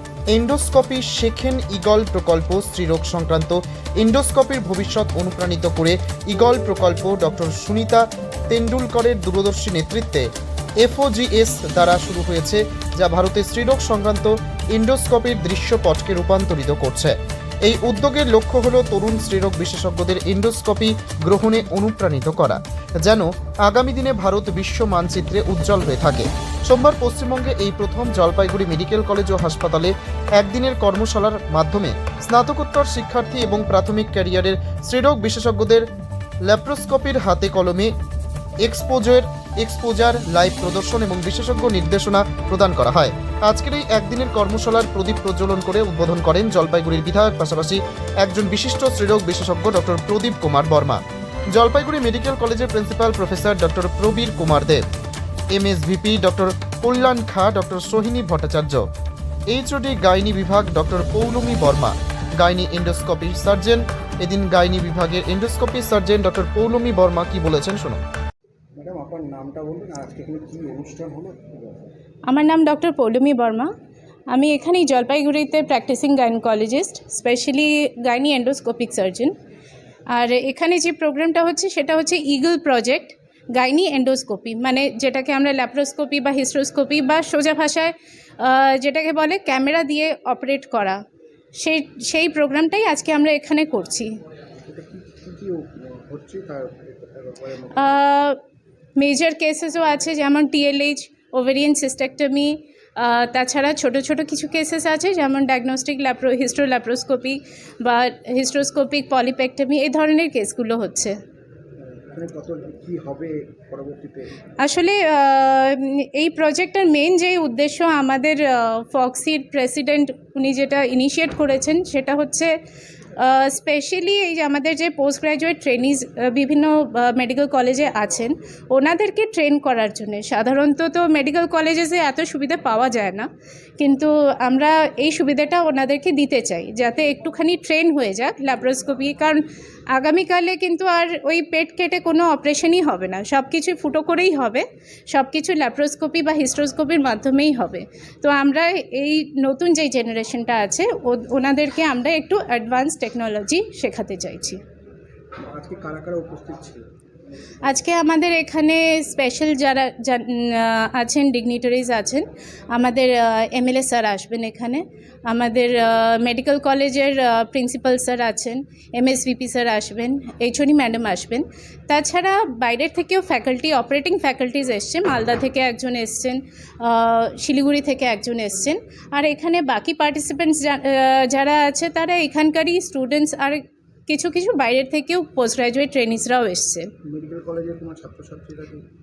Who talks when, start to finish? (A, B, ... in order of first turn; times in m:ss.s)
0:00.3-0:10.3 A
0:10.8-0:35.8 A
0:36.4-0:37.9 A
0:38.6-0:51.0 A
0:51.5-0:54.8 A
0:55.5-0:58.8 A
0:59.5-1:08.0 A
1:08.8-1:11.9 B
1:12.3-1:13.7 C
1:14.3-1:19.3 C
1:20.1-1:31.0 C
1:31.6-1:34.1 C
1:34.6-1:38.0 B
1:37.8-1:38.4 C
1:39.0-1:51.2 C
1:52.1-1:54.3 B
1:54.6-2:02.5 C
2:03.2-2:13.3 C
2:13.8-2:34.6 C
2:35.4-2:36.8 B
2:37.6-3:06.9 C
3:07.0-3:08.8 B